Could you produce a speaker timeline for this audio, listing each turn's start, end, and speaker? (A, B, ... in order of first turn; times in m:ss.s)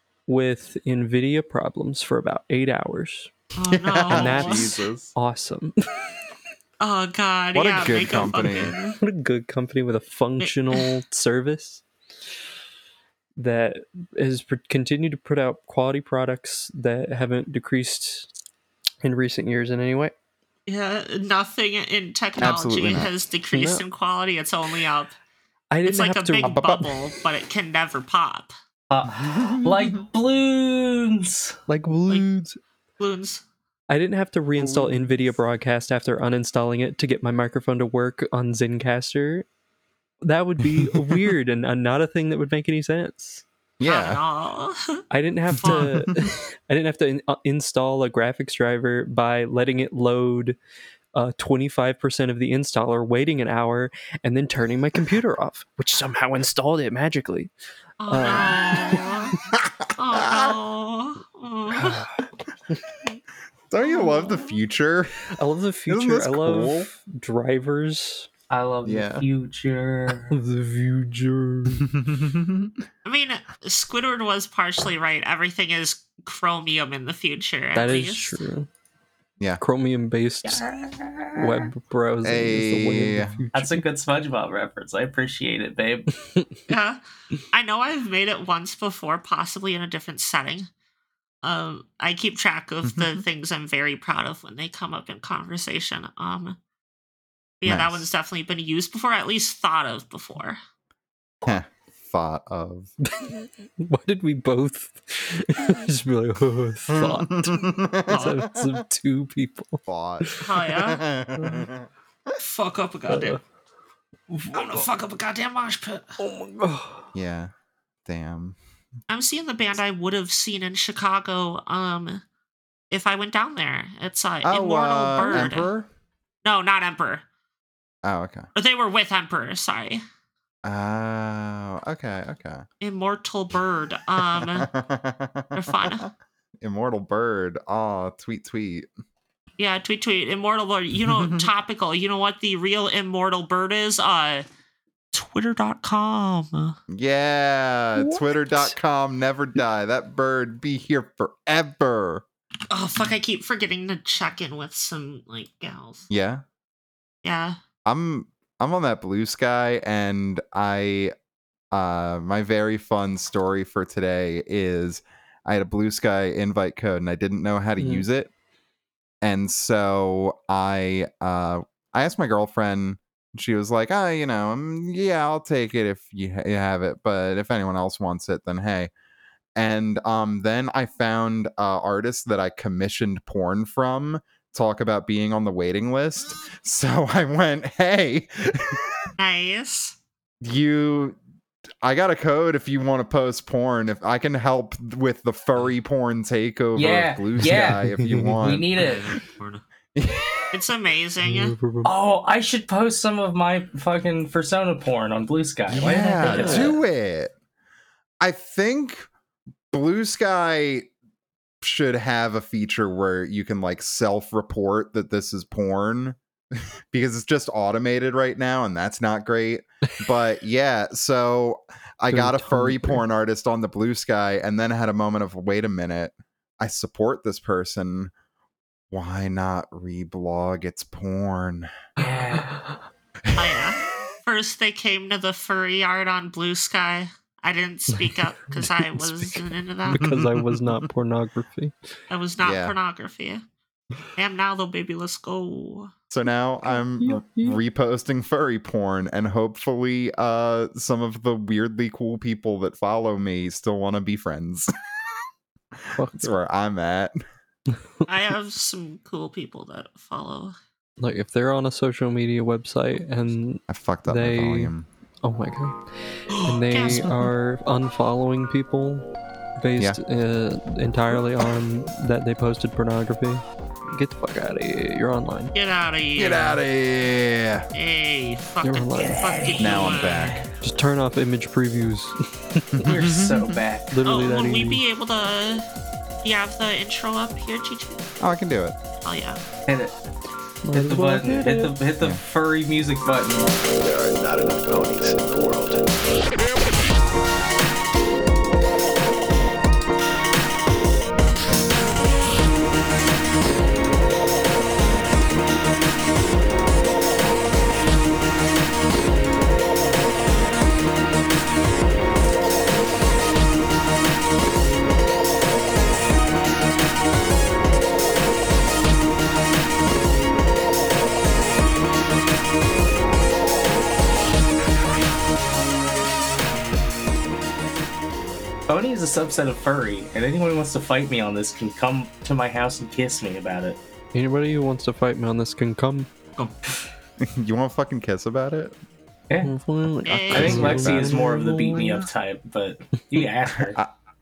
0:00.3-0:03.3 A
0:03.6-0:04.7 B
0:03.7-0:05.1 C
0:04.1-0:05.7 A
0:06.8-0:09.0 B
0:07.6-0:08.7 C
0:09.0-0:11.8 A
0:10.4-0:10.9 B
0:13.4-0:18.3 A
0:19.0-0:20.1 A
0:20.7-0:25.2 B
0:22.4-0:23.1 C
0:23.5-0:23.8 A
0:25.7-0:26.6 A
0:25.8-0:28.5 B
0:26.4-0:26.9 C
0:28.9-0:31.6 D
0:29.2-0:30.0 C
0:31.7-0:32.6 A
0:33.0-0:33.4 B
0:33.9-0:39.5 A
0:34.6-0:34.9 C
0:40.2-0:43.4 A
0:40.7-0:41.3 C
0:43.8-0:44.2 C
0:43.9-0:45.0 B
0:45.1-0:50.6 A
0:45.6-0:46.1 B
0:51.1-0:57.5 A
0:58.0-0:59.4 B
0:58.1-0:59.2 A
0:59.5-1:00.6 C
1:00.0-1:02.0 B
1:01.7-1:02.8 A
1:03.7-1:05.2 C
1:03.8-1:04.6 B
1:05.4-1:08.3 A
1:05.9-1:06.9 C
1:08.5-1:10.4 D
1:08.8-1:09.3 C
1:10.3-1:11.9 A
1:11.8-1:12.8 C
1:13.0-1:18.4 B
1:17.8-1:18.7 A
1:19.6-1:20.7 A
1:20.4-1:21.7 D
1:21.3-1:23.9 A
1:22.2-1:23.4 C
1:23.5-1:26.1 D
1:26.3-1:26.6 A
1:26.7-1:27.0 B
1:27.5-1:30.7 B
1:31.4-1:36.6 B
1:32.9-1:33.2 C
1:37.6-1:40.6 B
1:37.7-1:38.1 C
1:41.4-1:42.9 C
1:43.0-1:50.6 A
1:46.9-1:48.8 C
1:48.1-1:48.4 B
1:49.9-1:51.9 C
1:50.4-1:51.0 B
1:51.4-1:51.7 A
1:52.4-1:53.4 B
1:53.1-1:53.4 A
1:54.3-1:54.9 A
1:54.5-1:56.2 B
1:56.2-1:57.1 A
1:57.1-1:57.5 C
1:58.1-1:58.6 C
1:59.1-2:02.2 B
2:02.9-2:05.7 B
2:04.4-2:05.9 C
2:06.4-2:07.2 B
2:08.0-2:08.5 C
2:08.6-2:10.0 B
2:10.6-2:12.6 C
2:12.8-2:14.7 B
2:14.2-2:16.1 C
2:15.6-2:16.1 B
2:16.6-2:18.9 C
2:19.6-2:24.4 B
2:21.1-2:21.5 C
2:25.1-2:26.8 B
2:26.9-2:32.2 C
2:28.0-2:28.8 A
2:32.7-2:36.1 B
2:36.1-2:36.4 C
2:37.2-2:37.6 B
2:37.9-2:41.1 C
2:41.7-2:48.3 C
2:47.8-2:48.0 A
2:49.2-2:58.9 C
2:59.6-3:08.8 C
3:09.2-3:10.0 B
3:10.4-3:11.2 C
3:11.8-3:18.7 C
3:16.8-3:17.8 D
3:17.4-3:18.4 A
3:18.4-3:19.1 D
3:18.8-3:19.6 B
3:20.0-3:20.5 C
3:20.5-3:21.6 B
3:21.2-3:21.9 A
3:21.8-3:26.8 D
3:25.7-3:27.3 C
3:26.1-3:26.7 A
3:28.2-3:29.1 C
3:29.7-3:30.9 C
3:31.6-3:48.1 C
3:42.1-3:43.0 A
3:48.9-3:51.7 C
3:52.0-3:52.6 D
3:52.4-3:52.6 A
3:53.3-3:53.6 C
3:53.4-4:00.1 B
3:58.6-4:01.7 A
3:59.9-4:00.8 C
4:02.1-4:03.4 B
4:02.4-4:02.8 C
4:04.2-4:05.9 B
4:06.1-4:14.7 C
4:07.0-4:07.6 A
4:16.0-4:16.3 A
4:16.2-4:17.2 C
4:18.0-4:20.6 B
4:21.0-4:24.7 A
4:23.7-4:24.9 C
4:25.2-4:29.1 A
4:26.7-4:27.1 B
4:29.6-4:35.5 A
4:35.6-4:36.6 B
4:36.2-4:37.7 C
4:37.7-4:40.4 B
4:38.6-4:39.5 A
4:39.0-4:40.5 D
4:39.6-4:40.4 C
4:40.6-4:42.8 A
4:42.7-4:43.5 C
4:42.8-4:44.0 D
4:43.9-4:44.8 A
4:44.0-4:45.7 B
4:46.2-4:48.1 B
4:48.2-4:48.8 C
4:49.0-4:49.4 B
4:49.7-4:49.9 D
4:50.6-4:51.8 A
4:50.7-4:53.5 D
4:53.8-4:55.8 E
5:28.7-5:33.8 D
5:34.1-5:36.1 A
5:37.2-5:38.8 C
5:39.4-5:42.0 A
5:40.1-5:40.7 B
5:40.1-5:41.2 C
5:40.3-5:43.8 D